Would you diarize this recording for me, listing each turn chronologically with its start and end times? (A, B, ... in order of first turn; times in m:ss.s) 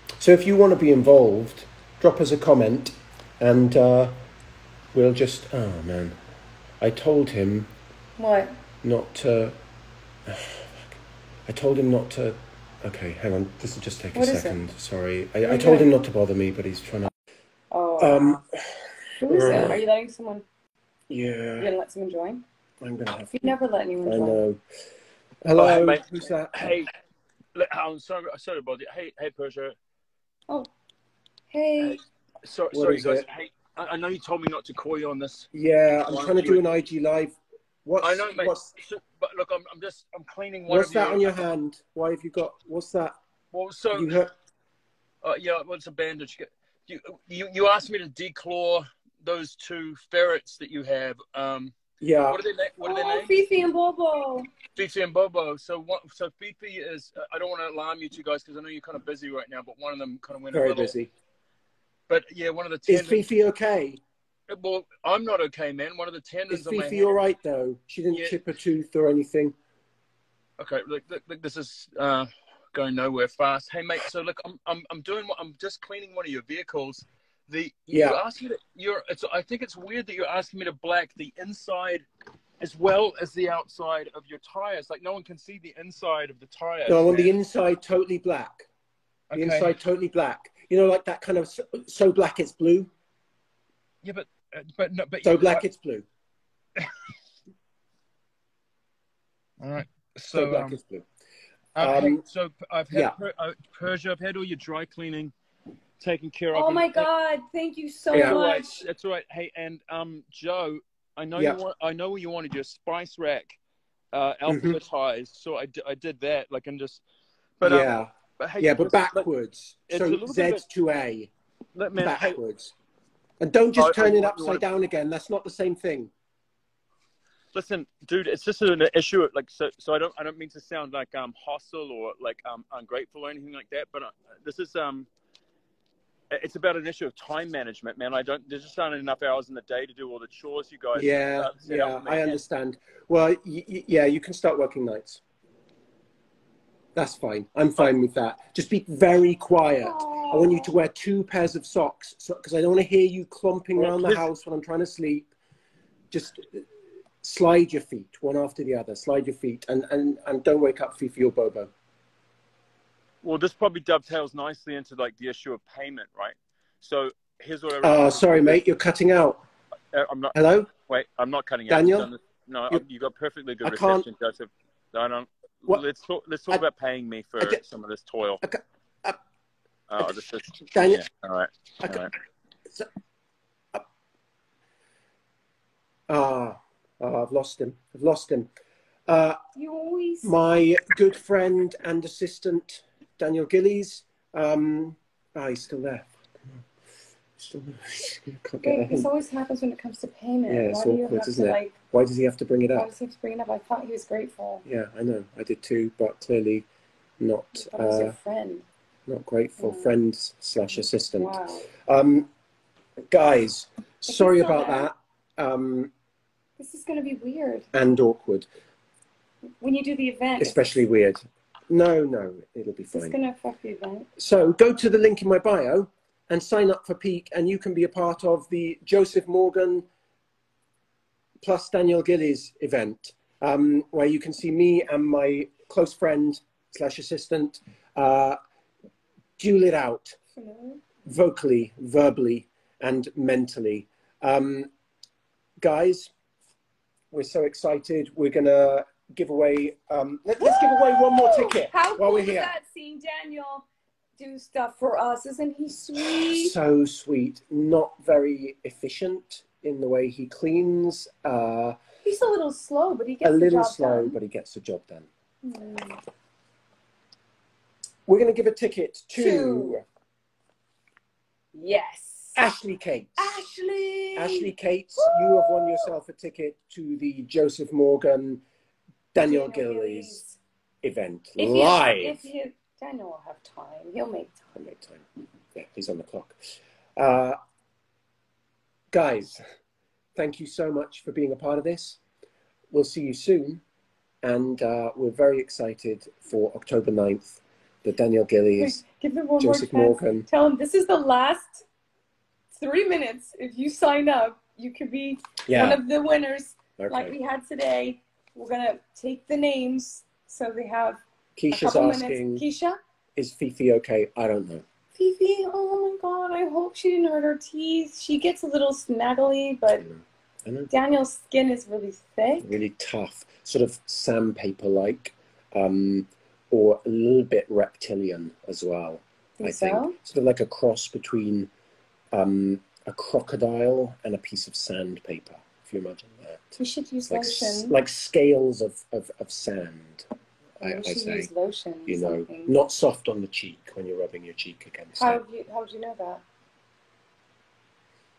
0:00.2-0:04.1 A
0:04.9-0:06.2 A
0:06.8-0:07.7 A
0:08.2-0:08.6 B
0:08.8-0:09.6 A
0:10.3-0:10.9 A
0:11.5-0:17.1 A
0:14.1-0:14.6 B
0:15.4-0:15.9 B
0:17.7-0:18.4 B
0:18.0-0:18.6 A
0:19.2-0:20.4 B
0:19.3-0:19.8 A
0:21.1-0:21.7 A
0:21.6-0:22.4 B
0:22.8-0:24.6 A
0:23.2-0:24.4 B
0:25.4-0:26.7 A
0:25.6-0:26.9 C
0:27.6-0:29.8 C
0:31.5-0:32.0 B
0:31.8-0:35.5 C
0:32.7-0:33.2 A
0:35.5-0:38.6 A
0:36.1-0:36.6 C
0:38.0-0:41.4 C
0:40.7-0:43.1 A
0:43.5-0:44.1 C
0:43.9-0:44.3 A
0:45.2-0:51.8 C
0:52.0-0:52.4 A
0:52.3-0:53.4 C
0:52.8-0:54.5 B
0:54.7-1:01.0 C
1:00.5-1:01.1 A
1:02.1-1:03.2 C
1:02.9-1:04.0 A
1:04.5-1:07.2 C
1:06.5-1:09.6 A
1:08.1-1:08.4 C
1:10.6-1:22.0 C
1:17.9-1:18.2 A
1:22.6-1:27.3 C
1:26.9-1:28.7 A
1:29.3-1:29.7 C
1:29.3-1:32.9 A
1:34.0-1:35.6 C
1:35.2-1:36.1 A
1:39.6-1:40.8 C
1:40.3-1:41.1 A
1:41.8-1:45.3 C
1:41.8-1:42.2 A
1:46.0-1:47.1 C
1:46.5-1:48.8 B
1:48.1-1:53.6 C
1:48.1-1:48.4 A
1:54.1-1:57.0 C
1:54.5-1:54.8 A
1:57.6-1:59.3 C
1:57.6-2:01.3 A
1:59.9-2:00.6 C
2:01.8-2:02.4 C
2:02.0-2:02.7 A
2:03.4-2:06.1 A
2:03.8-2:04.6 C
2:07.5-2:15.1 C
2:16.3-2:22.4 C
2:20.9-2:25.2 A
2:27.0-2:35.3 A
2:29.8-2:30.8 B
2:33.8-2:34.3 C
2:36.1-2:36.6 A
2:37.2-2:41.7 A
2:43.2-2:48.6 C
2:47.8-2:49.4 A
2:49.9-2:50.4 C
2:50.4-2:50.7 A
2:50.9-2:58.4 C
2:51.7-2:52.1 A
2:53.6-2:54.1 A
2:58.4-2:59.2 A
2:59.9-3:02.1 C
3:00.7-3:01.0 A
3:01.8-3:02.1 A
3:06.1-3:08.5 A
3:09.1-3:09.4 A
3:09.6-3:10.3 B
3:10.2-3:16.6 A
3:17.4-3:19.1 A
3:18.6-3:21.8 B
3:20.5-3:22.9 A
3:22.7-3:24.6 B
3:24.7-3:26.7 A
3:27.2-3:28.2 A
3:27.6-3:28.6 B
3:29.1-3:32.3 A
3:29.6-3:30.0 B
3:31.2-3:31.7 B
3:33.1-3:35.9 A
3:34.1-3:34.9 B
3:36.6-3:37.7 B
3:37.7-3:38.5 A
3:39.6-3:40.7 B
3:40.4-3:43.2 A
3:42.9-3:44.1 B
3:44.2-3:49.9 A
3:51.4-3:58.4 A
3:59.4-4:00.2 A
4:00.4-4:00.8 B
4:01.0-4:04.7 A
4:05.6-4:06.1 A
4:07.1-4:12.5 A
4:10.4-4:13.6 B
4:14.2-4:16.6 B
4:16.0-4:21.8 A
4:22.0-4:24.2 B
4:23.2-4:25.1 A
4:25.4-4:26.0 B
4:28.1-4:29.8 A
4:29.2-4:29.8 B
4:31.5-4:32.4 B
4:32.4-4:33.5 A
4:33.2-4:35.9 B
4:34.2-4:38.4 A
4:39.1-4:40.2 A
4:39.2-4:40.4 B
4:40.8-4:42.3 A
4:41.4-4:44.5 B
4:44.6-4:45.0 A
4:45.6-4:46.4 A
4:47.0-4:47.4 A
4:48.9-4:49.4 A
4:50.2-4:52.0 A
4:52.7-4:53.6 A
4:54.2-4:58.8 A
4:58.6-5:01.7 B
4:59.4-5:00.3 A
5:02.5-5:12.8 B
5:05.5-5:05.8 A
5:06.8-5:07.2 A
5:11.4-5:12.5 A
5:13.2-5:14.6 A
5:14.9-5:19.9 B
5:19.8-5:20.7 A
5:20.7-5:22.6 B
5:22.4-5:31.5 A
5:29.4-5:30.0 B
5:32.1-5:36.6 A
5:36.6-5:37.8 B
5:37.1-5:40.1 A
5:40.6-5:41.3 A
5:40.6-5:42.6 B
5:41.9-5:45.2 A
5:45.0-5:46.2 B